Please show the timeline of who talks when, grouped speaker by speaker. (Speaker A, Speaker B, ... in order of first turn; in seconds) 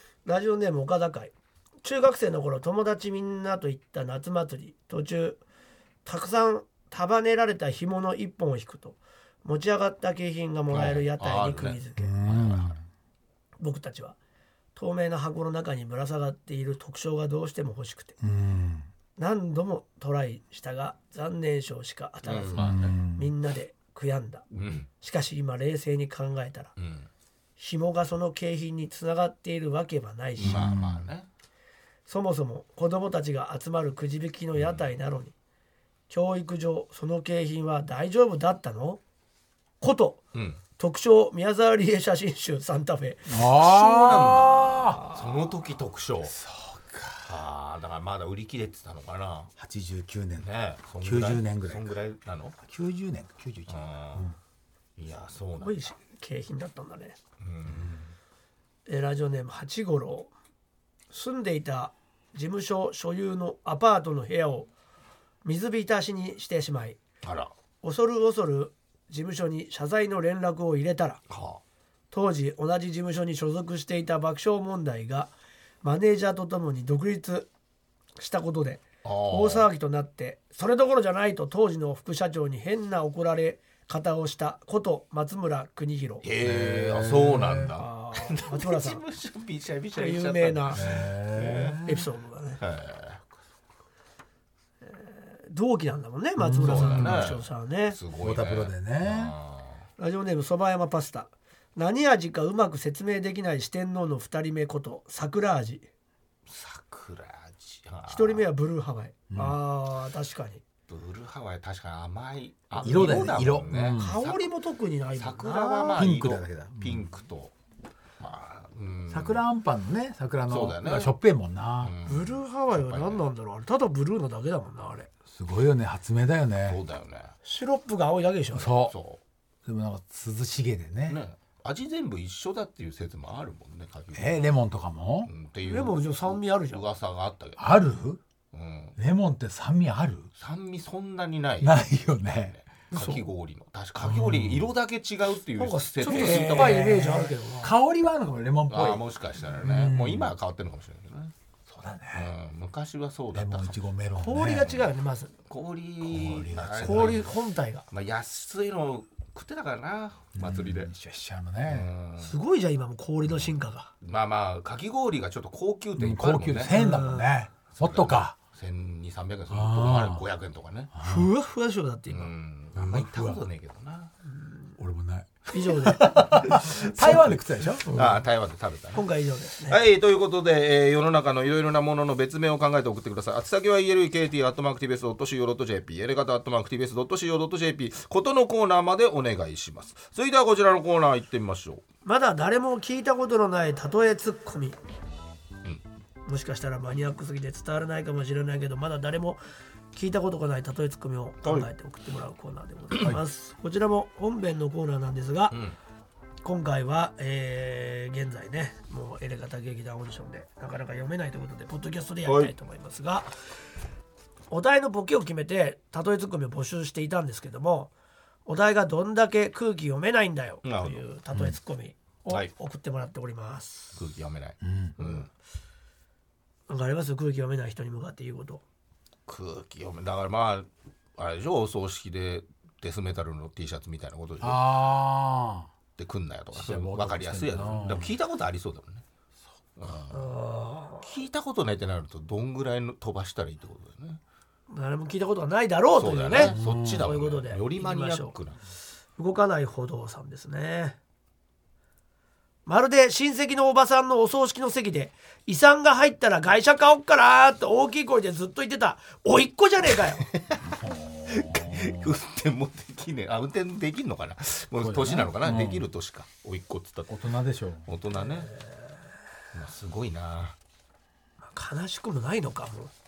Speaker A: 0.2-5.4, 6.0-12.1, 13.6-14.2, 14.8-18.2, 19.2-24.5, 25.0-26.7, 27.6-30.7, 32.1-35.3, 36.1-39.0, 39.8-40.2, 40.8-43.5, 44.9-45.2, 55.6-57.2, 58.9-60.3, 61.1-64.7, 65.4-67.0, 67.8-71.2, 72.1-77.5, 78.2-86.2, 87.8-89.0, 90.0-90.8, 91.8-92.6, 94.8-98.0, 100.0-105.9, 108.1-110.6, 114.0-116.0, 122.1-125.1, 127.4-128.7, 135.6-136.8, 142.9-143.2, 145.6-147.8, 154.2-155.3, 156.8-157.9, 162.2-163.9, 166.7-167.3, 171.0-172.3, 175.5-176.4, 178.9-179.8, 192.1-194.8, 196.2-199.4, 199.9-205.6, 206.4-213.3, 214.5-217.9, 218.5-224.0, 226.7-228.6, 240.1-241.2, 244.7-248.3, 249.2-251.0, 252.7-260.3, 271.4-272.9
Speaker B: 10.7-12.8, 22.2-23.0, 24.5-24.9, 26.8-27.1, 30.4-31.3, 34.6-34.9, 40.3-40.6, 43.6-46.4, 47.2-49.5, 50.4-52.6, 53.7-54.3, 55.0-55.8, 57.4-58.1, 67.2-67.5, 71.3-71.6, 79.0-79.7, 86.2-91.8, 92.6-93.2, 96.6-99.8, 106.5-108.5, 110.9-114.5, 115.2-117.5, 118.2-119.4, 120.5-121.1, 121.8-123.2, 126.7-127.3, 128.9-129.2, 131.1-134.4, 135.3-137.8, 138.5-139.0, 140.4-147.1, 148.7-151.3, 152.1-153.8, 155.5-157.4, 157.9-160.9, 161.7-162.4, 164.0-166.8, 167.7-170.9, 172.1-174.1, 176.3-179.1, 179.7-191.8, 201.4-201.7, 212.3-212.5, 220.6-221.0, 224.0-225.3, 229.3-234.7, 236.0-239.0, 239.8-240.4, 241.0-244.2, 246.0-248.6, 260.3-260.6, 261.3-267.2, 267.9-268.5, 269.5-270.6
Speaker C: 12.0-12.8, 18.2-18.9, 22.6-23.3, 30.4-31.1, 43.3-45.0, 46.3-47.4, 49.6-50.5, 51.0-51.9, 52.6-54.4, 86.4-87.8, 90.7-92.1, 96.4-97.4, 98.2-99.3, 109.3-109.6, 112.8-114.2, 115.9-117.1, 119.1-121.9, 125.3-126.8, 128.5-128.9, 129.7-131.2, 134.1-135.3, 137.6-138.2, 139.0-140.3, 141.6-142.6, 144.0-144.7, 146.1-150.3, 151.7-152.3, 153.3-154.8, 156.0-157.3, 160.4-161.9, 166.0-168.4, 169.5-170.2, 170.9-171.3, 172.8-173.4, 174.8-178.2, 224.6-224.9, 234.4-235.7, 236.5-238.2, 246.4-247.1, 260.6-262.2, 264.8-265.9, 267.1-267.9